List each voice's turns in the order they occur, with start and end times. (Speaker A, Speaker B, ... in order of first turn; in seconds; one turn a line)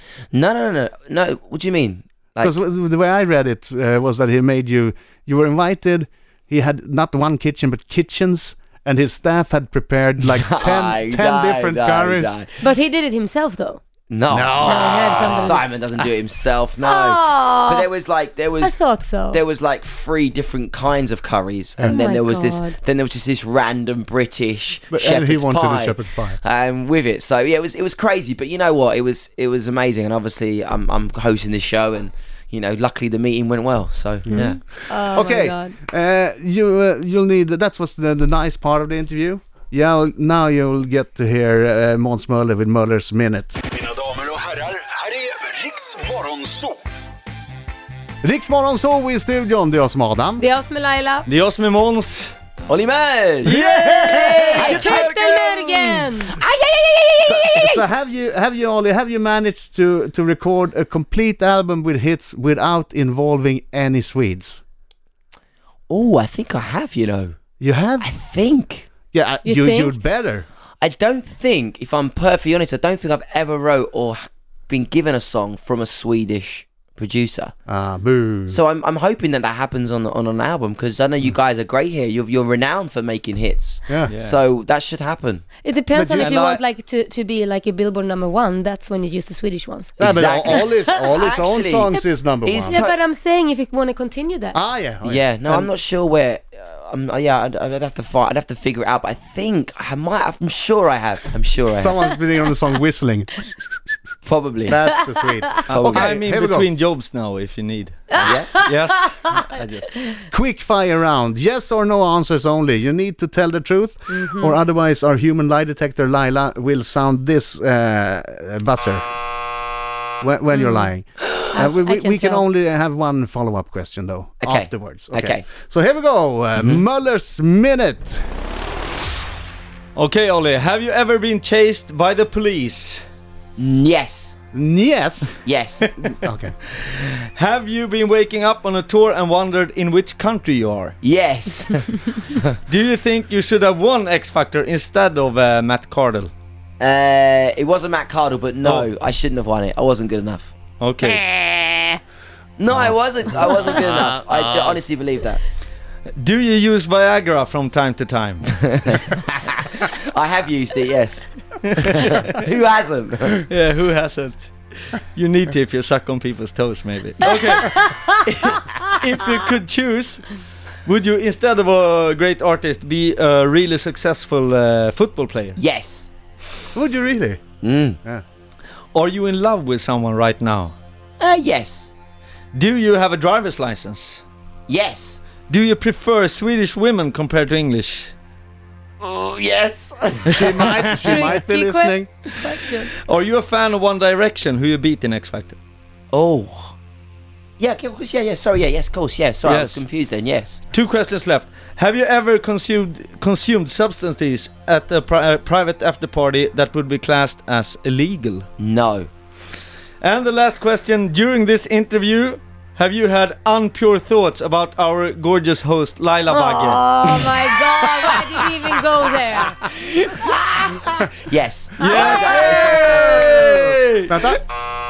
Speaker A: 0.3-2.6
Speaker B: 2.4-12.3
Speaker A: 10.3-12.6
Speaker C: 12.6-13.8
Speaker A: 14.1-18.8
Speaker B: 14.3-16.1
Speaker C: 14.6-15.5
Speaker C: 16.8-17.9
Speaker C: 18.6-19.4
Speaker A: 19.3-34.6
Speaker C: 21.9-22.8
Speaker B: 24.9-26.4
Speaker B: 34.3-43.6
Speaker C: 34.9-35.7
Speaker D: 43.9-46.7
Speaker B: 48.2-50.4
Speaker C: 50.4-51.2
Speaker E: 51.3-52.4
Speaker A: 52.7-53.6
Speaker B: 53.5-54.8
Speaker E: 53.5-55.9
Speaker C: 54.0-56.3
Speaker A: 54.6-55.4
Speaker A: 56.2-57.9
Speaker B: 57.2-64.6
Speaker A: 65.9-67.4
Speaker B: 67.6-68.1
Speaker A: 68.0-68.9
Speaker B: 69.1-70.5
Speaker C: 69.5-69.9
Speaker A: 70.8-77.5
Speaker B: 77.7-78.6
Speaker A: 78.5-85.5
Speaker E: 84.1-84.4
Speaker C: 85.6-90.0
Speaker B: 85.9-86.3
Speaker E: 86.1-86.6
Speaker B: 90.0-92.8
Speaker A: 90.0-93.0
Speaker C: 90.5-90.8
Speaker C: 92.8-94.5
Speaker B: 94.5-95.7
Speaker A: 95.0-102.1
Speaker B: 101.7-103.6
Speaker A: 104.2-104.8
Speaker B: 104.7-106.7
Speaker A: 105.7-106.2
Speaker E: 105.8-109.9
Speaker A: 108.2-108.6
Speaker C: 108.2-108.7
Speaker B: 110.3-119.0
Speaker C: 114.1-114.5
Speaker B: 120.2-128.2
Speaker C: 120.5-120.8
Speaker C: 121.5-122.4
Speaker A: 124.4-125.5
Speaker A: 126.5-126.8
Speaker E: 129.9-133.1
Speaker A: 133.6-134.3
Speaker B: 134.5-135.4
Speaker A: 135.4-135.9
Speaker B: 136.0-136.6
Speaker E: 136.8-141.0
Speaker A: 141.0-142.4
Speaker E: 142.7-146.3
Speaker A: 146.8-152.0
Speaker E: 148.6-148.9
Speaker E: 150.8-151.2
Speaker A: 152.6-155.4
Speaker E: 153.5-154.8
Speaker E: 156.1-158.8
Speaker A: 158.6-163.5
Speaker E: 161.6-162.3
Speaker E: 163.5-175.6
Speaker A: 175.6-176.1
Speaker B: 176.7-177.4
Speaker A: 177.6-178.0
Speaker E: 178.9-180.8
Speaker A: 181.2-181.9
Speaker E: 182.5-184.2
Speaker A: 184.7-185.2
Speaker E: 185.5-188.1
Speaker A: 189.0-190.7
Speaker E: 190.3-191.4
Speaker B: 190.3-192.1
Speaker C: 191.1-192.9
Speaker E: 193.1-195.6
Speaker A: 196.1-196.8
Speaker A: 197.6-200.6
Speaker E: 199.4-199.8
Speaker E: 200.7-208.5
Speaker A: 208.6-209.1
Speaker E: 210.0-216.8
Speaker C: 216.3-219.5
Speaker A: 219.6-223.2
Speaker E: 221.8-224.4
Speaker B: 221.9-224.4